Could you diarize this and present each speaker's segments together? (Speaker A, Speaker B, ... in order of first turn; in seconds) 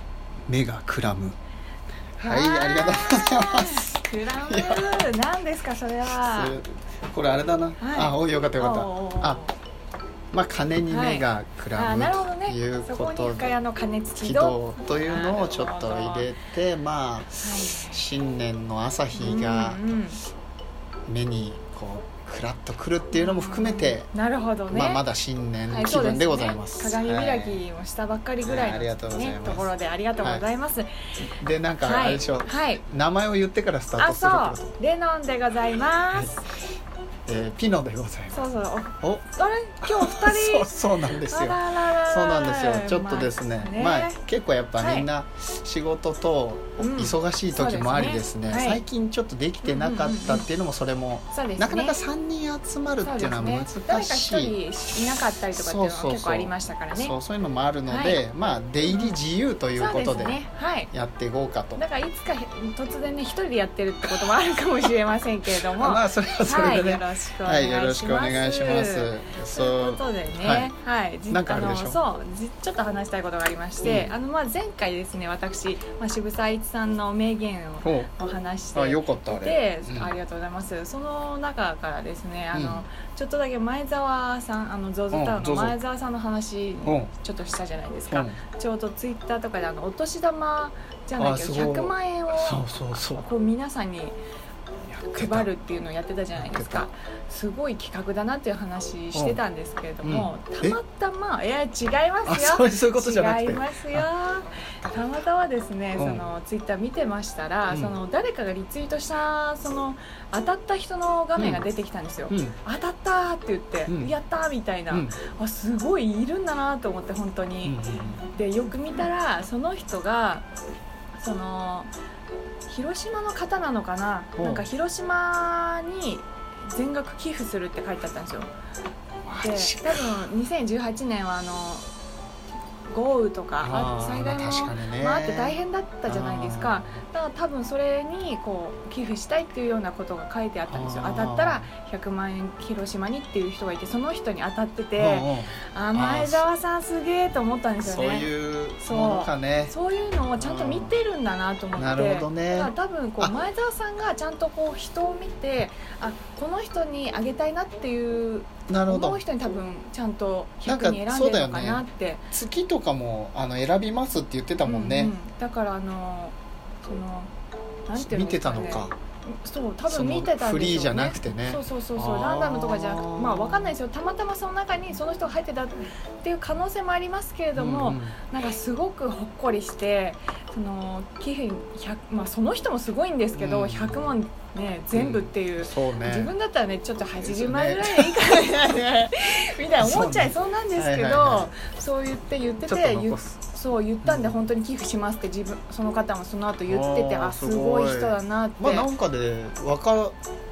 Speaker A: 0.5-1.4, 2.2-3.9, 4.5-5.1, 6.2-9.4, 10.3-13.5, 14.2-19.9, 21.1-24.1, 24.7-27.6, 28.4-30.5, 31.2-34.7, 37.3-38.4, 39.8-54.6, 55.5-60.4, 60.9-61.8, 65.5-70.7, 71.3-72.0, 73.8-74.1, 77.8-78.1, 78.8-80.2, 82.5-82.8, 85.1-85.8, 86.8-87.1, 88.1-88.4, 91.2-93.3, 94.9-95.5, 96.3-96.9, 99.1-99.4, 100.0-100.8, 102.2-104.1, 106.0-106.3, 107.7-108.0, 111.4-111.7, 112.3-112.6, 113.9-114.2, 114.9-115.2, 117.7-118.3, 124.4-124.6, 129.2-130.2, 133.6-137.0, 140.7-141.7, 145.0-146.5, 147.8-149.8, 150.4-151.0, 151.8-153.4, 158.7-159.2, 160.6-165.2, 167.9-168.9, 169.9-173.8, 177.6-178.2, 183.3-184.2, 184.9-186.3, 187.2-188.2, 189.8-191.5, 192.7-193.3, 194.0-194.4, 196.7-200.2
Speaker B: 2.2-6.6, 7.8-9.5, 10.9-16.3, 17.4-18.0, 19.1-20.2, 23.1-25.0, 25.7-30.9, 31.8-32.8, 34.0-36.4, 38.3-44.2, 44.8-45.1, 46.8-48.8, 49.6-50.5, 51.3-52.0, 53.0-57.1, 57.9-58.2, 58.9-59.2, 59.8-60.9, 61.8-94.2, 95.1-120.5, 121.1-121.9, 122.7-128.5, 129.4-131.8, 132.9-148.3, 148.8-162.2, 164.7-167.3, 167.9-198.9